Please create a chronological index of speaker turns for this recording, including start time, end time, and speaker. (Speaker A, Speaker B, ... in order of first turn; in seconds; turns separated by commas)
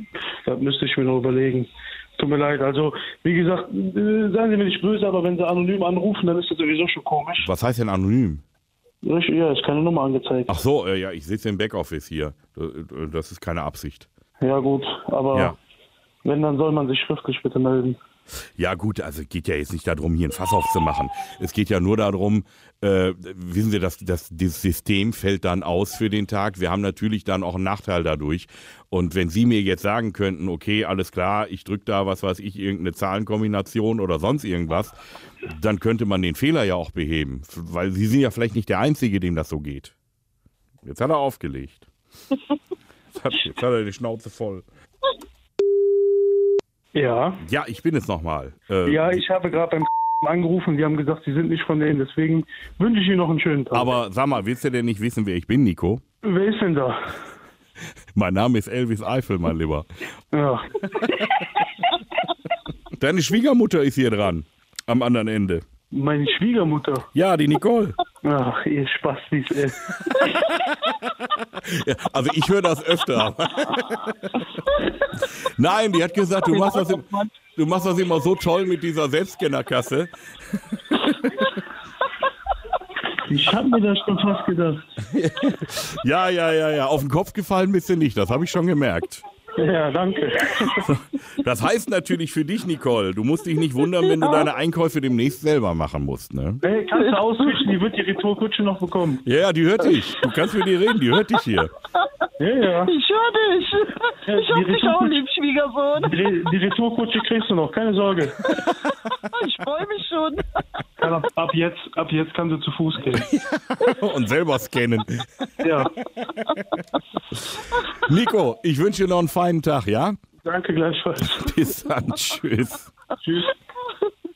Speaker A: 0.5-7.5, Speaker B: 7.4-8.4, Speaker A: 9.0-10.6, Speaker B: 10.5-14.1, Speaker A: 14.4-15.6, Speaker A: 16.2-18.0, Speaker B: 18.6-35.0, Speaker B: 35.5-40.0, Speaker B: 40.8-41.9, Speaker B: 43.1-44.6, Speaker A: 47.0-47.4, Speaker B: 47.4-49.2, Speaker A: 48.9-53.9, Speaker B: 53.7-56.0, Speaker A: 56.2-57.0, Speaker B: 58.1-59.9, Speaker A: 60.3-60.7, Speaker B: 63.0-65.6, Speaker A: 65.9-67.1, Speaker B: 67.1-68.0, Speaker A: 68.2-70.2, Speaker B: 71.6-74.3, Speaker B: 75.2-80.1, Speaker A: 76.5-77.3, Speaker B: 80.7-81.6, Speaker A: 83.3-84.8, Speaker B: 85.1-89.2, Speaker A: 89.6-90.9, Speaker B: 90.8-96.6, Speaker C: 94.1-94.5, Speaker A: 96.6-99.2, Speaker C: 96.7-97.7, Speaker B: 99.2-101.7, Speaker A: 102.4-102.9, Speaker C: 102.8-106.2, Speaker A: 104.3-105.2, Speaker A: 106.0-108.4, Speaker C: 108.5-110.7, Speaker A: 111.0-113.3, Speaker B: 113.2-115.5, Speaker A: 115.6-115.9, Speaker B: 117.5-120.2, Speaker A: 120.5-121.5, Speaker B: 121.2-122.9, Speaker A: 123.2-123.5